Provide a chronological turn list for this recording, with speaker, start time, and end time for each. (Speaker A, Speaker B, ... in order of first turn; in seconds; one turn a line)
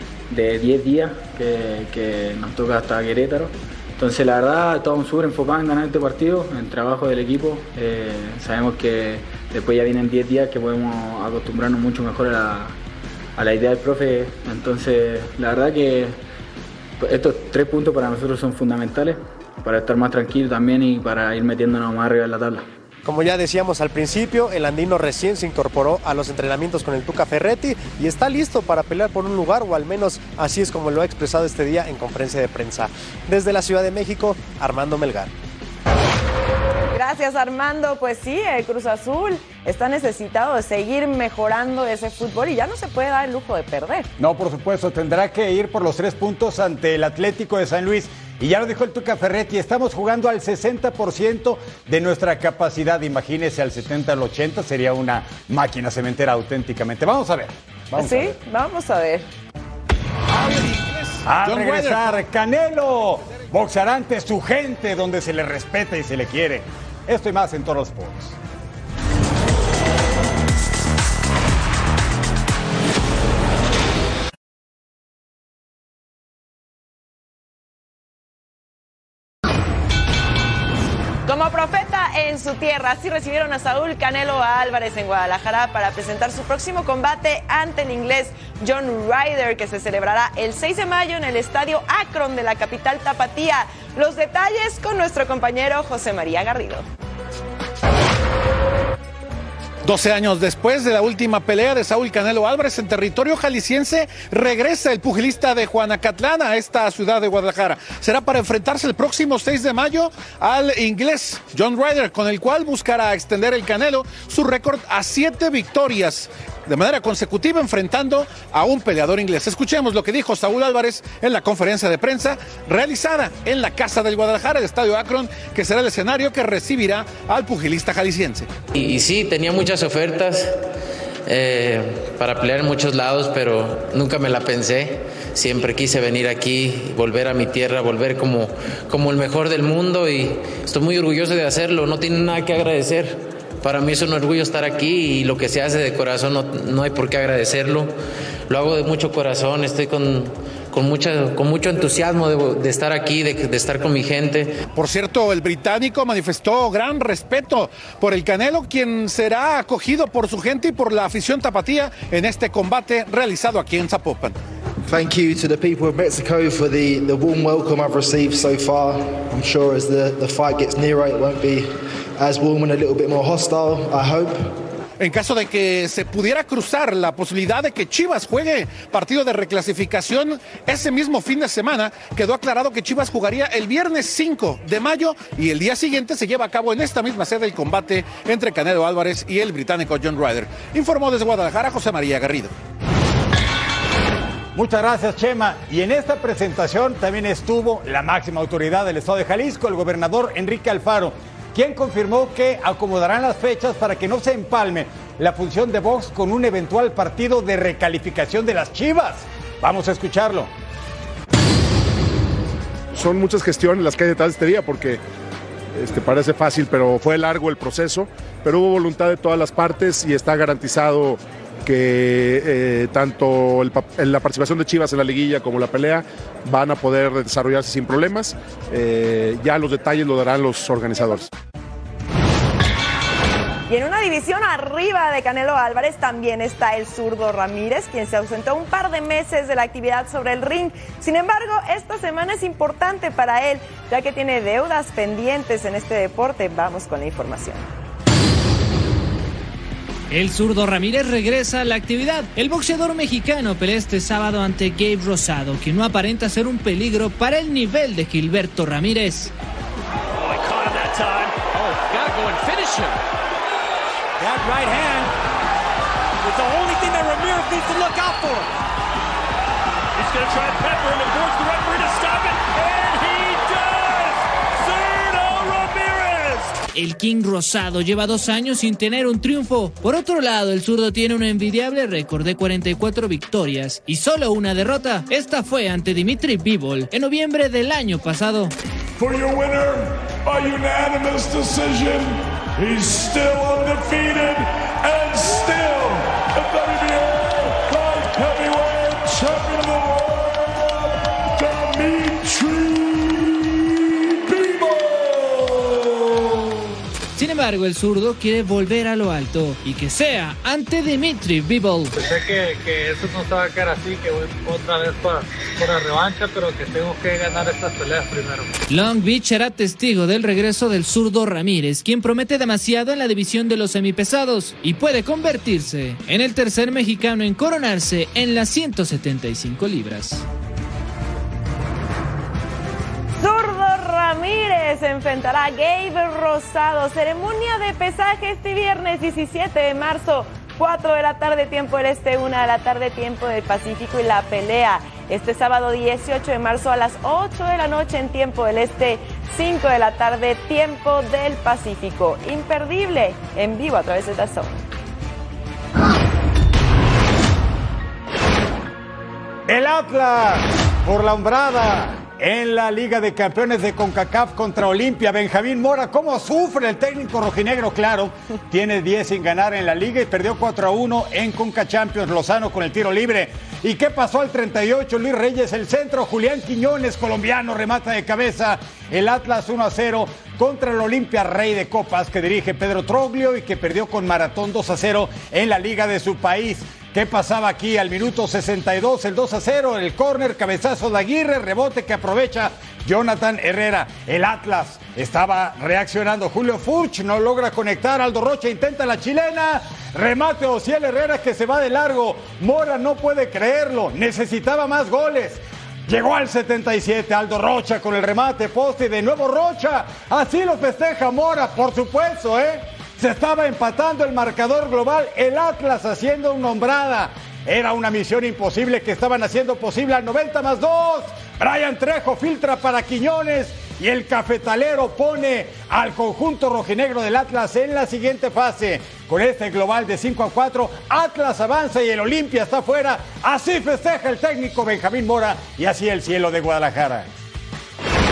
Speaker A: 0.3-12.8
Speaker A: 13.4-16.2
Speaker A: 17.0-22.7
Speaker B: 23.0-35.3
Speaker C: 36.9-44.1
Speaker D: 44.2-58.4
Speaker C: 58.0-59.3
Speaker E: 60.3-62.2
Speaker D: 61.2-68.4
Speaker C: 81.3-96.8
Speaker E: 99.8-128.5
Speaker F: 128.7-130.6
Speaker F: 131.3-147.9
Speaker F: 148.5-154.5
Speaker E: 154.7-164.3
Speaker G: 164.9-174.6
Speaker E: 175.0-192.5
Speaker D: 194.5-210.5
Speaker H: 212.9-215.0
Speaker H: 215.7-231.3
Speaker C: 233.7-247.7
Speaker I: 250.1-259.3
Speaker J: 260.3-261.2
Speaker J: 262.0-262.7
Speaker J: 266.3-268.2
Speaker J: 270.0-272.3
Speaker I: 276.7-288.5
Speaker K: 289.0-306.4
Speaker I: 307.1-311.9
Speaker L: 311.9-318.5
Speaker I: 318.7-330.2
Speaker C: 333.2-354.6
Speaker D: 359.5-437.1